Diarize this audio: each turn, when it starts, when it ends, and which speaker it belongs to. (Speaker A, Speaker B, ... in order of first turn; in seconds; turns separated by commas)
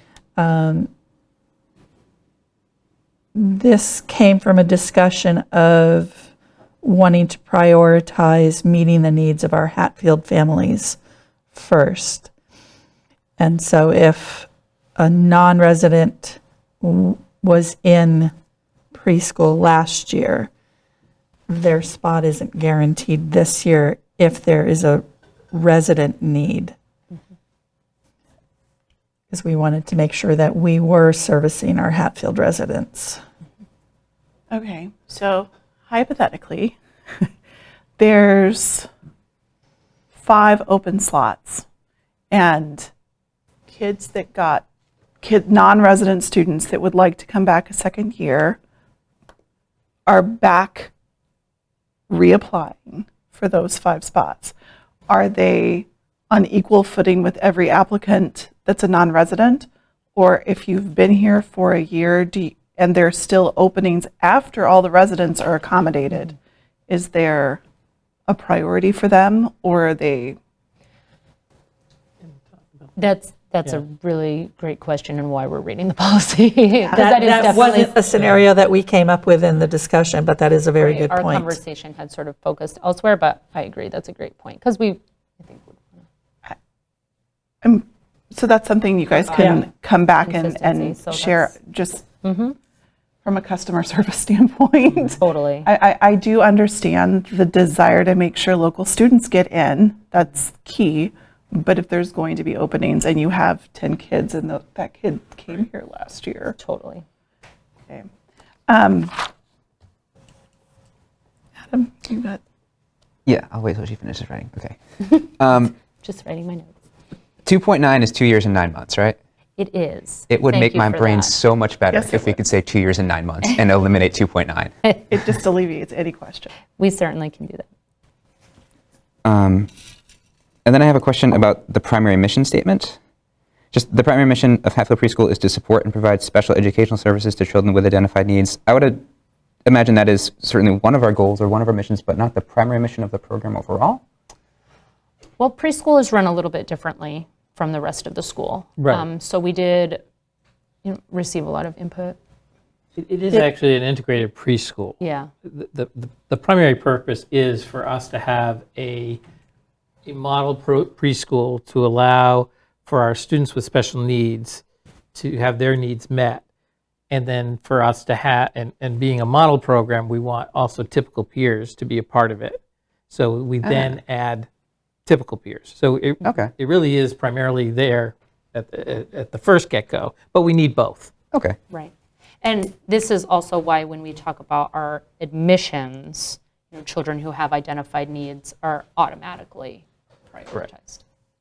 Speaker A: 0.4-0.9, Speaker A: 3.3-6.3, Speaker A: 6.8-11.0, Speaker A: 11.5-12.3, Speaker A: 13.4-18.3, Speaker A: 18.9-20.5, Speaker A: 21.5-26.7, Speaker A: 29.3-33.2, Speaker B: 34.5-37.3, Speaker B: 38.0-38.9, Speaker B: 40.2-41.6, Speaker B: 42.3-42.9, Speaker B: 43.7-44.6, Speaker B: 45.2-48.6, Speaker B: 50.0-50.9, Speaker B: 52.1-54.5, Speaker B: 55.1-66.3, Speaker B: 66.9-67.6, Speaker B: 68.3-70.4, Speaker C: 72.5-72.8, Speaker D: 73.0-77.9, Speaker A: 76.9-81.6, Speaker D: 80.8-86.0, Speaker B: 87.6-92.0, Speaker D: 89.1-89.6, Speaker D: 90.2-91.6, Speaker D: 92.2-92.6, Speaker B: 93.2-106.5, Speaker D: 95.0-95.7, Speaker D: 106.5-107.0, Speaker B: 108.7-109.3, Speaker B: 111.7-112.4, Speaker E: 113.2-115.7, Speaker D: 116.0-116.7, Speaker E: 117.4-119.2, Speaker D: 119.6-121.3, Speaker E: 120.3-124.7, Speaker B: 121.9-122.4, Speaker B: 125.1-126.5, Speaker D: 126.8-127.7, Speaker E: 129.2-129.7, Speaker E: 130.6-133.0, Speaker E: 133.7-139.0, Speaker E: 139.6-144.0, Speaker D: 145.4-150.0, Speaker C: 148.8-149.0, Speaker D: 150.8-152.2, Speaker C: 153.0-159.2, Speaker D: 155.0-155.3, Speaker C: 160.0-166.4, Speaker C: 167.1-172.6, Speaker C: 173.1-174.5, Speaker E: 173.6-173.9, Speaker C: 175.1-181.1, Speaker E: 176.2-176.5, Speaker D: 181.7-191.0